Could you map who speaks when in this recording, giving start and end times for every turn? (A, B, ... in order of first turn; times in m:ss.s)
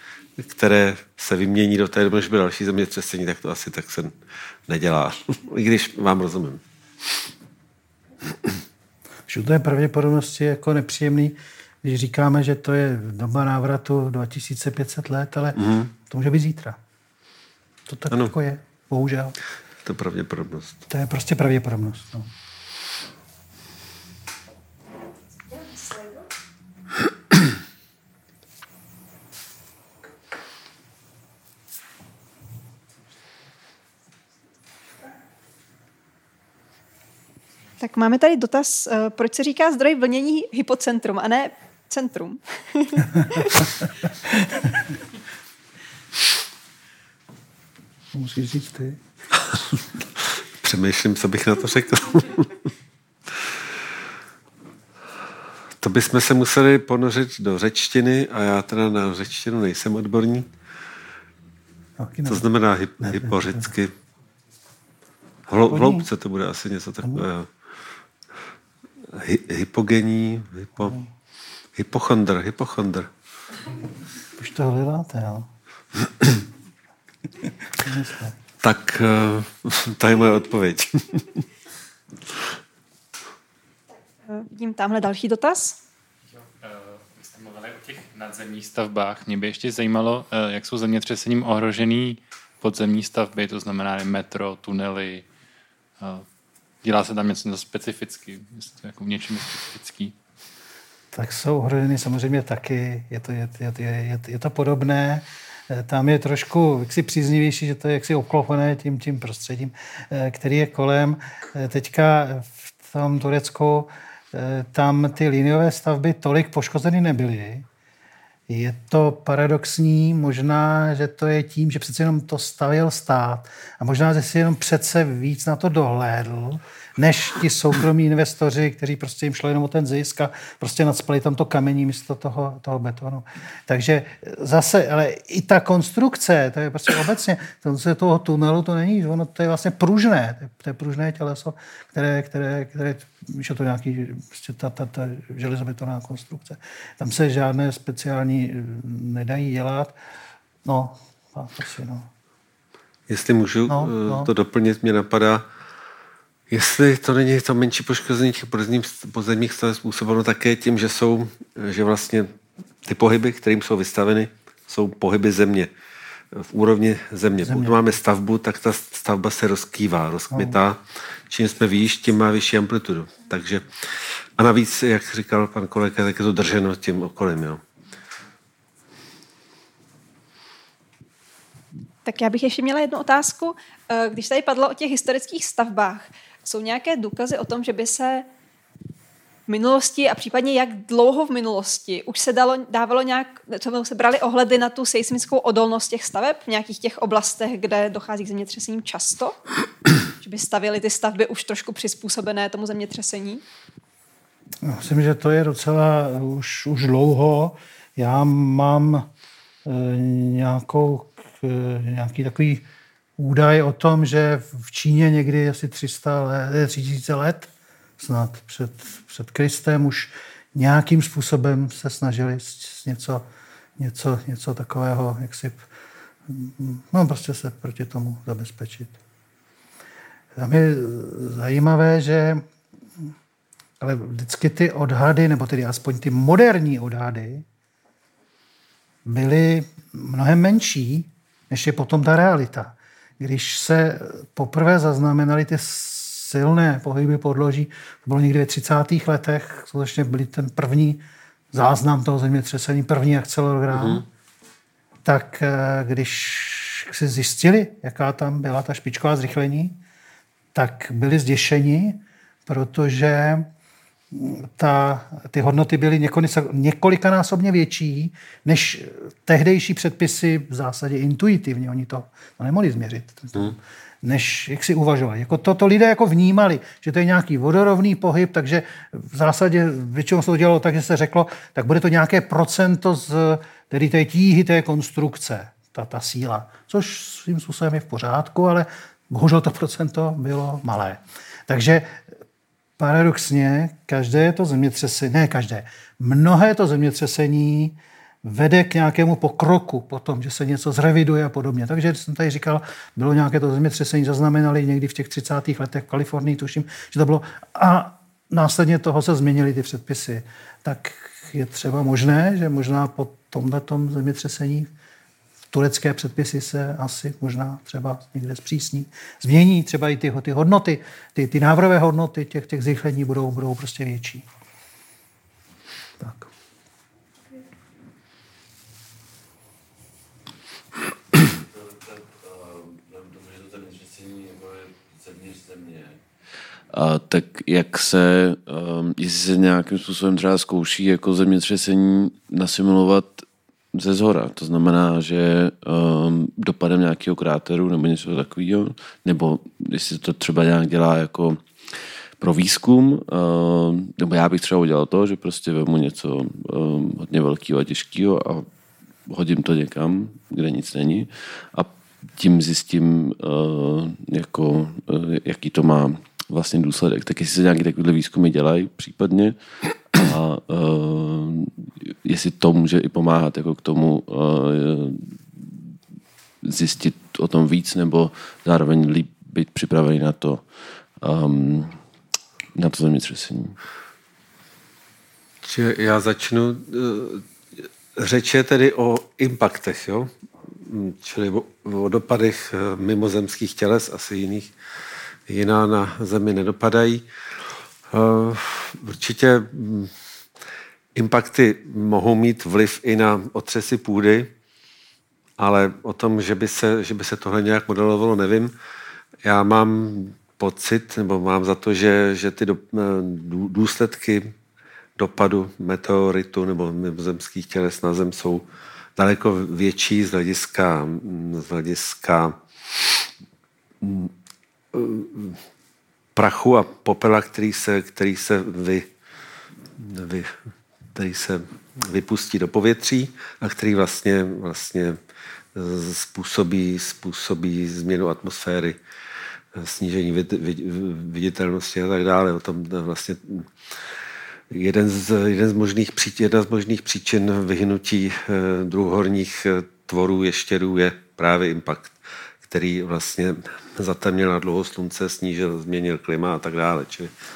0:00.4-0:04.1 A
0:04.7-0:06.6 A
0:09.3-0:16.8 B
0:15.6-0:15.9 A
0:17.9-0:19.4 B
0:19.8-0:20.8 A
0:20.9-0:22.3 B
0:37.8-0:43.8 C
0:48.1-0:49.0 B
0:50.5-0:52.5 A
0:55.8-1:00.5 A
1:02.0-1:02.5 B
1:02.2-1:03.9 A
1:03.0-1:03.7 B
1:05.5-1:07.5 A
1:05.7-1:06.1 B
1:09.1-1:11.0 A
1:10.8-1:11.1 B
1:11.8-1:13.1 A
1:14.4-1:15.5 B
1:17.8-1:18.3 B
1:18.6-1:21.4 A
1:24.2-1:25.8 C
1:26.3-1:35.3 D
1:36.0-1:36.2 D
1:36.8-1:40.1 D
1:41.1-1:57.6 B
1:58.5-2:30.0 B
2:30.6-2:32.1 B
2:33.1-2:35.4 A
2:33.7-2:34.3 B
2:36.5-2:45.7 A
2:46.3-2:53.6 A
2:47.4-2:47.8 B
2:50.3-2:50.6 B
2:54.4-2:57.6 A
3:02.0-3:08.3 C
3:09.5-3:19.4 C
3:20.2-3:23.4 C
3:24.6-3:29.1 B
3:29.6-3:32.6 B
3:33.2-3:43.2 B
3:43.8-3:45.6 B
3:46.3-3:49.0 B
3:50.4-3:52.4 B
3:53.8-3:57.4 B
3:59.0-4:11.0 B
4:11.5-4:14.0 B
4:13.7-4:14.0 A
4:15.0-4:19.8 B
4:20.5-4:23.5 B
4:24.1-4:52.0 B
4:52.8-5:14.7 B
5:15.5-5:24.2 B
5:26.0-5:26.3 B
5:31.1-5:36.0 E
5:36.7-5:51.4 E
5:52.2-5:58.5 E
5:59.1-6:09.4 E
6:09.9-6:15.2 E
6:16.4-6:20.5 E
6:21.0-6:21.8 E
6:22.5-6:23.6 E
6:25.4-6:27.2 A
6:27.9-6:34.5 A
6:35.3-6:37.0 A
6:37.9-6:39.9 A
6:40.9-6:44.3 A
6:45.4-6:48.5 A
6:49.2-6:54.3 A
6:55.0-6:58.4 A
6:59.0-7:03.1 A
7:03.8-7:04.1 A
7:04.7-7:05.4 A
7:06.2-7:08.9 A
7:09.8-7:10.3 A
7:10.9-7:15.0 A
7:15.5-7:18.8 A
7:19.5-7:23.5 A
7:24.5-7:37.1 A